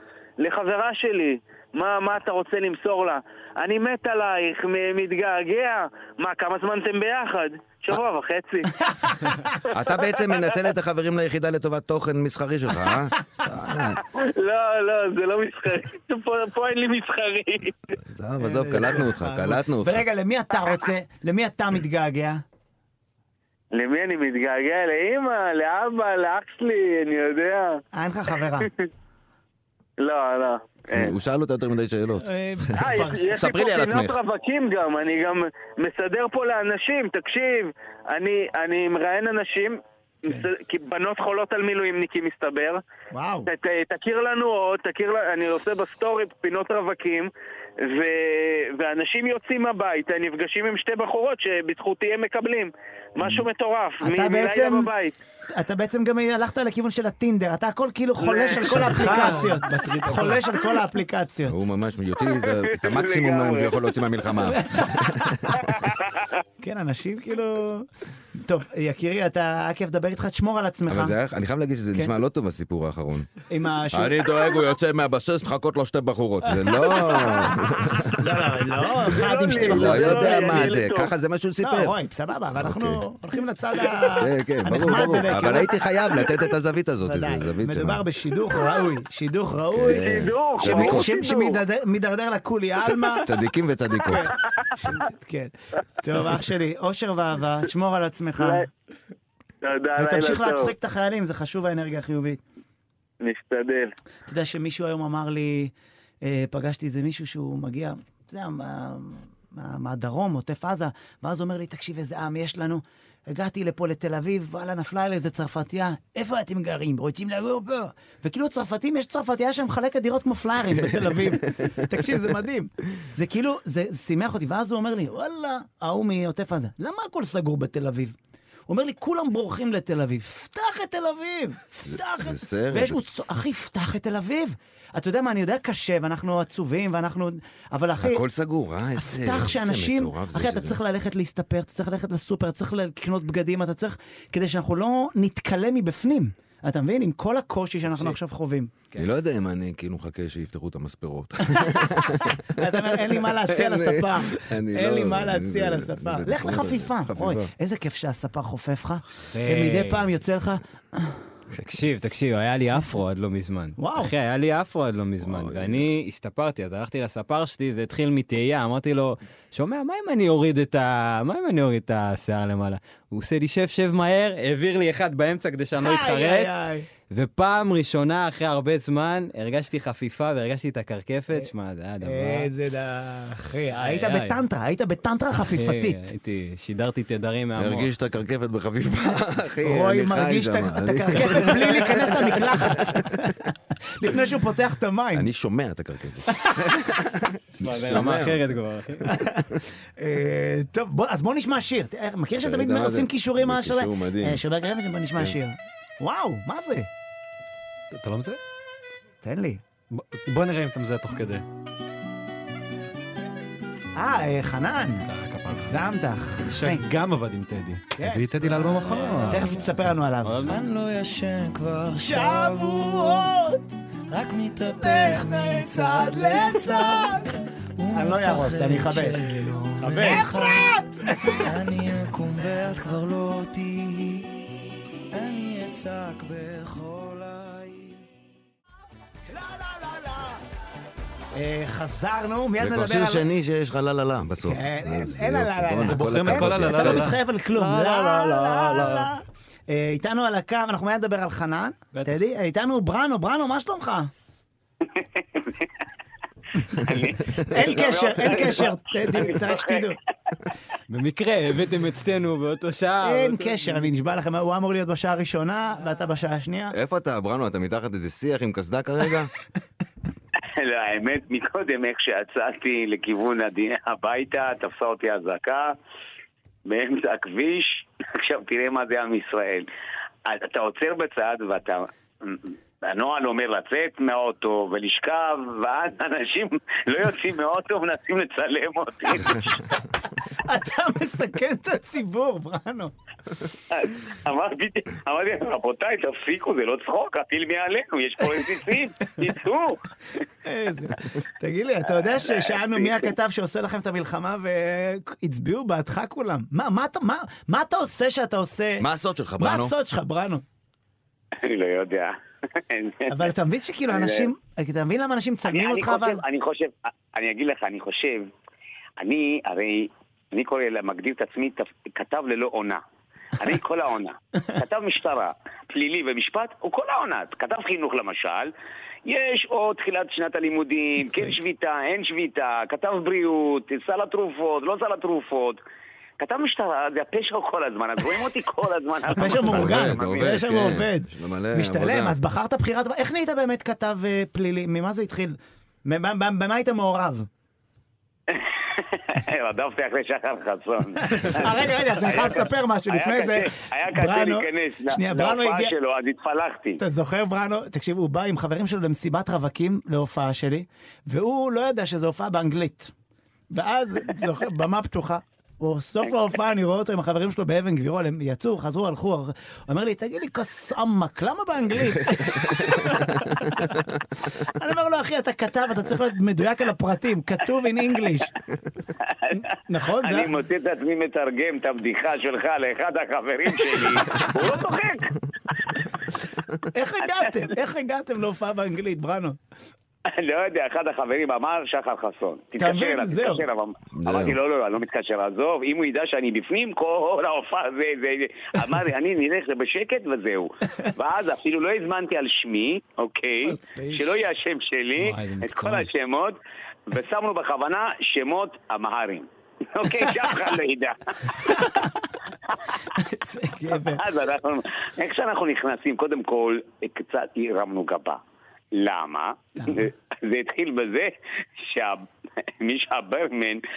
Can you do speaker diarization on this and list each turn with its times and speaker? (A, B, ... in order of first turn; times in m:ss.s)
0:00.4-0:09.1 A
0:09.0-0:09.6 B
0:09.7-0:10.6 A
0:09.7-0:14.0 C
0:14.0-0:17.8 A
0:18.0-0:20.0 C
0:18.4-0:22.4 B
0:23.7-0:27.8 A
0:27.9-0:28.7 B
0:28.6-0:28.9 A
0:30.0-0:31.1 A
0:30.9-0:32.7 C
0:32.2-0:33.4 B
0:32.8-0:42.8 A
0:33.3-0:34.2 C
0:43.1-0:43.5 B
0:43.4-0:47.3 A
0:47.8-0:55.1 A
0:54.0-0:54.9 B
0:55.5-1:01.6 B
0:58.2-0:58.8 A
0:58.6-1:00.4 D
1:01.5-1:05.6 C
1:02.2-1:04.1 A
1:04.5-1:05.6 B
1:05.7-1:06.2 A
1:06.6-1:11.2 B
1:10.9-1:13.3 C
1:13.5-1:14.5 B
1:13.9-1:18.4 C
1:16.5-1:20.8 B
1:18.7-1:21.1 A
1:19.6-1:22.0 C
1:21.6-1:25.8 B
1:22.5-1:23.0 C
1:24.1-1:28.0 C
1:27.0-1:33.3 B
1:29.7-1:31.2 C
1:29.9-1:31.6 A
1:33.2-1:34.3 C
1:34.1-1:38.7 B
1:38.4-1:38.6 A
1:39.6-1:40.7 A
1:40.0-1:42.4 B
1:43.2-1:43.9 A
1:44.3-2:08.2 B
2:00.9-2:01.8 C
2:08.7-2:18.2 B
2:11.8-2:13.0 C
2:18.0-2:20.8 C
2:19.0-2:28.7 B
2:27.9-2:28.2 E
2:29.0-2:37.5 C
2:31.4-2:41.2 B
2:39.3-2:40.1 E
2:41.6-3:02.5 E
2:43.8-2:44.1 B
2:45.2-2:45.9 C
2:55.8-2:56.9 B
3:02.0-3:06.1 B
3:03.7-3:04.4 E
3:05.4-3:07.9 E
3:07.6-3:13.3 C
3:09.6-3:15.3 B
3:15.1-3:18.6 C
3:16.3-3:16.6 B
3:17.6-3:19.2 E
3:19.0-3:26.9 B
3:22.4-3:24.5 C
3:27.9-3:28.4 D
3:29.2-3:29.6 B
3:29.9-3:31.4 D
3:34.0-3:36.8 B
3:35.1-3:35.9 D
3:36.5-3:39.6 D
3:38.0-3:40.4 B
3:38.9-3:39.5 F
3:40.2-3:40.6 E
3:40.5-3:43.3 F
3:41.9-3:43.6 B
3:44.1-3:54.3 F
3:44.8-3:47.3 B
3:47.9-3:49.3 B
3:49.8-3:51.4 B
3:55.1-3:58.0 F
3:59.3-4:00.4 B
4:01.3-4:03.3 B
4:02.6-4:07.2 C
4:04.4-4:14.1 B
4:05.8-4:07.2 D
4:07.5-4:09.1 E
4:11.9-4:12.2 E
4:14.8-4:15.7 G
4:16.8-4:19.9 G
4:17.4-4:20.0 B
4:20.9-4:23.9 E
4:23.0-4:26.8 B
4:26.7-4:29.3 C
4:30.6-4:35.7 G
4:36.7-4:39.7 G
4:40.2-4:49.8 G
4:50.4-4:52.9 B
4:53.7-4:59.8 G
5:00.4-5:08.9 B
5:02.1-5:03.1 G
5:08.8-5:09.7 C
5:09.4-5:10.4 B
5:11.4-5:13.3 G
5:13.1-5:16.2 B
5:13.9-5:14.3 G
5:15.5-5:18.3 G
5:19.0-5:22.8 G
5:23.4-5:28.5 G
5:29.0-5:35.6 G
5:36.2-5:40.4 G
5:39.1-5:47.3 B
5:39.3-5:42.2 C
5:48.3-5:56.8 G
5:51.0-5:55.7 B
5:56.8-6:02.9 B
6:03.5-6:18.3 B
6:12.4-6:13.1 C
6:19.1-6:19.4 G
6:19.3-6:20.3 B
6:19.9-6:25.8 G
6:26.6-6:29.4 B
6:30.1-6:46.4 G
6:32.6-6:33.4 B
6:33.9-6:34.4 C
6:43.4-6:44.1 B
6:45.0-6:45.9 E
6:46.9-6:51.8 G
6:51.4-6:52.0 B
6:52.5-6:52.7 G
6:52.9-6:54.0 B
6:53.9-6:58.2 G
6:58.7-7:03.6 G
6:59.6-6:59.9 B